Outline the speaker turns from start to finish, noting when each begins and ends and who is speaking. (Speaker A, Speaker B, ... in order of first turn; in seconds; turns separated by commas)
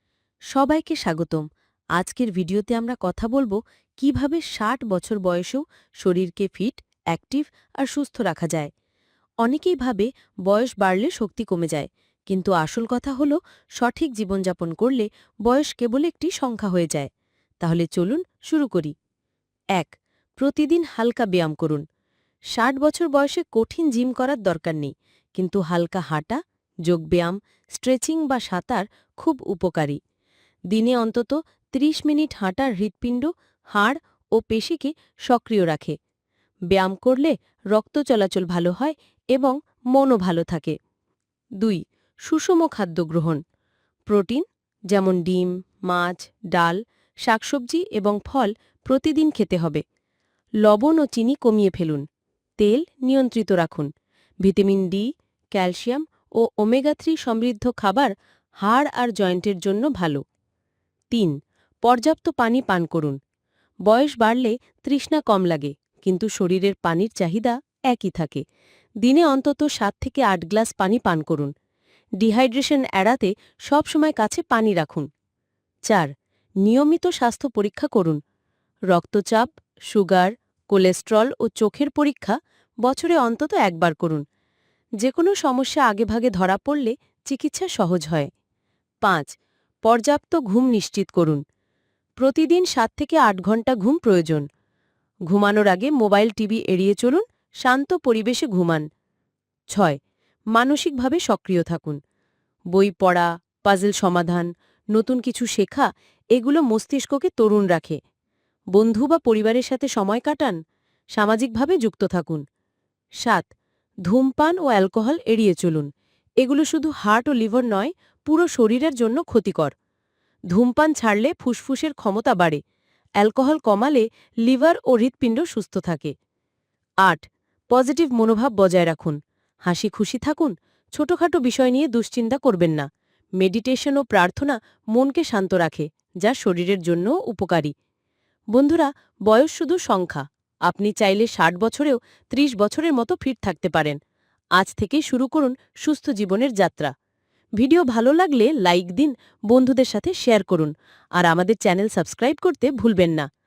Speaker A: 0.5-1.4, Speaker A: 1.9-8.7, Speaker A: 9.4-17.1, Speaker A: 17.6-18.9, Speaker A: 19.7-21.8, Speaker A: 22.5-30.0, Speaker A: 30.7-36.0, Speaker A: 36.7-40.8, Speaker A: 41.6-43.4, Speaker A: 44.1-49.8, Speaker A: 50.6-52.0, Speaker A: 52.6-53.9, Speaker A: 54.4-60.2, Speaker A: 61.1-63.2, Speaker A: 63.9-68.4, Speaker A: 69.0-71.5, Speaker A: 72.2-75.1, Speaker A: 76.6-78.2, Speaker A: 78.9-84.2, Speaker A: 85.0-88.3, Speaker A: 89.0-89.3, Speaker A: 89.8-91.4, Speaker A: 92.2-94.5, Speaker A: 95.3-98.8, Speaker A: 99.7-100.0, Speaker A: 100.5-102.0, Speaker A: 102.7-108.0, Speaker A: 108.7-110.5, Speaker A: 111.2-112.4, Speaker A: 113.2-113.5, Speaker A: 114.0-115.9, Speaker A: 116.4-119.7, Speaker A: 120.5-122.6, Speaker A: 123.2-126.1, Speaker A: 127.0-132.9, Speaker A: 133.4-137.7, Speaker A: 138.5-144.0, Speaker A: 144.6-146.9, Speaker A: 147.6-153.3